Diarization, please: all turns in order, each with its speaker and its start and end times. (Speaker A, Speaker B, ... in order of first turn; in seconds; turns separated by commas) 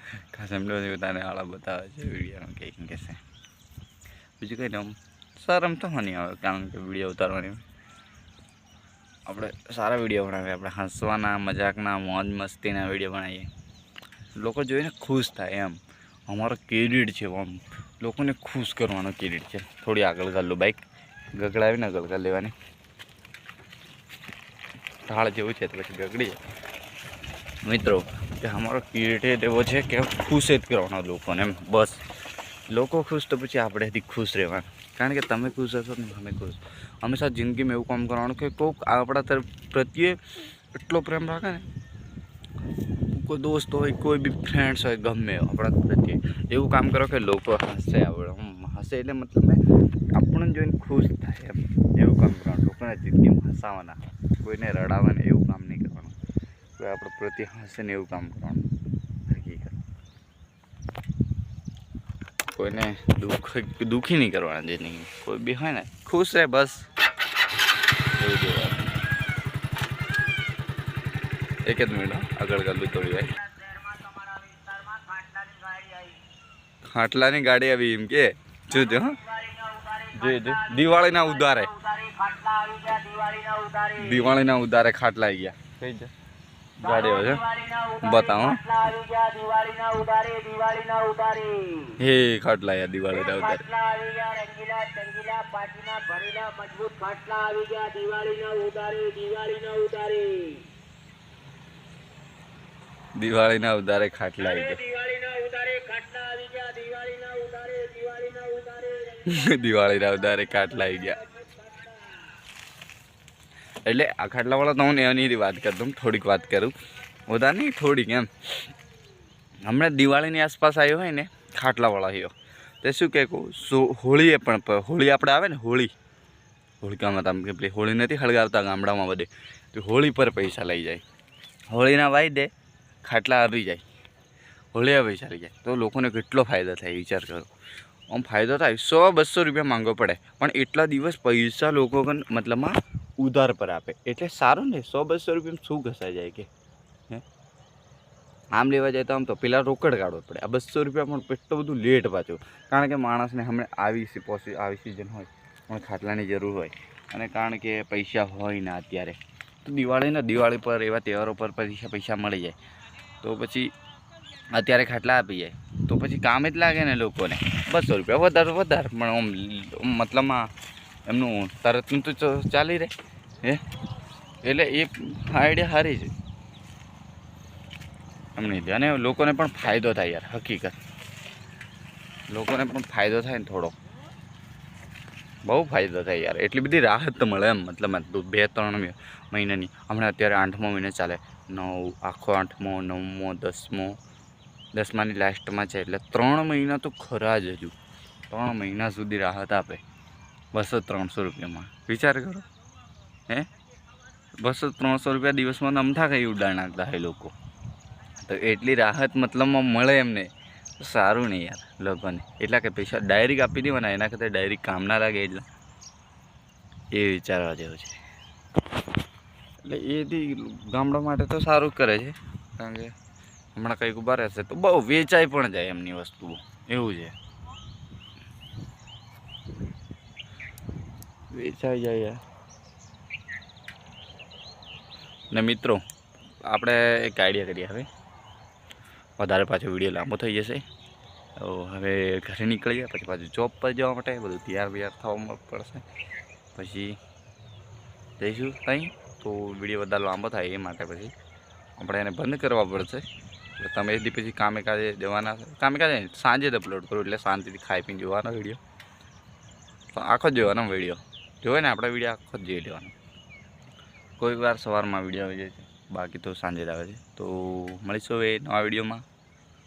Speaker A: 0.3-3.2, Speaker A: 4.4-7.6, Speaker A: 9.3-13.5, Speaker A: 14.4-20.8, Speaker A: 21.4-22.5, Speaker A: 25.1-26.4, Speaker A: 27.7-32.0, Speaker A: 32.7-40.2, Speaker A: 40.7-41.7, Speaker A: 43.1-49.6, Speaker A: 50.1-56.2, Speaker A: 56.8-58.7, Speaker A: 59.3-59.8, Speaker A: 62.5-66.9, Speaker A: 68.2-68.9, Speaker A: 71.7-73.4, Speaker B: 73.4-76.2, Speaker A: 76.8-79.2, Speaker B: 79.1-84.2, Speaker A: 80.1-81.7, Speaker A: 84.0-86.1, Speaker A: 86.8-87.5, Speaker B: 86.8-92.0, Speaker A: 88.0-88.7, Speaker A: 92.0-93.7, Speaker B: 93.2-100.7, Speaker A: 103.2-104.8, Speaker B: 104.8-109.2, Speaker A: 109.2-111.4, Speaker B: 111.4-112.0, Speaker A: 113.9-116.7, Speaker A: 117.3-118.7, Speaker A: 119.7-125.9, Speaker A: 126.8-131.0, Speaker A: 131.7-132.5, Speaker A: 133.0-133.9, Speaker A: 134.7-137.5, Speaker A: 138.1-146.5, Speaker A: 148.6-162.6, Speaker A: 163.2-163.7, Speaker A: 164.5-170.5, Speaker A: 171.1-173.6, Speaker A: 174.4-176.1, Speaker A: 178.4-180.8, Speaker A: 182.3-183.8, Speaker A: 185.4-194.0, Speaker A: 194.7-197.8, Speaker A: 198.3-199.8, Speaker A: 200.5-202.5, Speaker A: 204.4-207.3, Speaker A: 208.2-215.5, Speaker A: 216.9-218.0, Speaker A: 219.6-222.9, Speaker A: 223.6-227.1, Speaker A: 231.3-232.2, Speaker A: 235.3-235.8, Speaker A: 236.5-237.9, Speaker A: 239.2-240.6, Speaker A: 241.4-245.8, Speaker A: 246.5-247.0, Speaker A: 248.2-251.1, Speaker A: 251.8-253.0, Speaker A: 253.6-258.6, Speaker A: 259.9-262.9, Speaker A: 264.2-269.0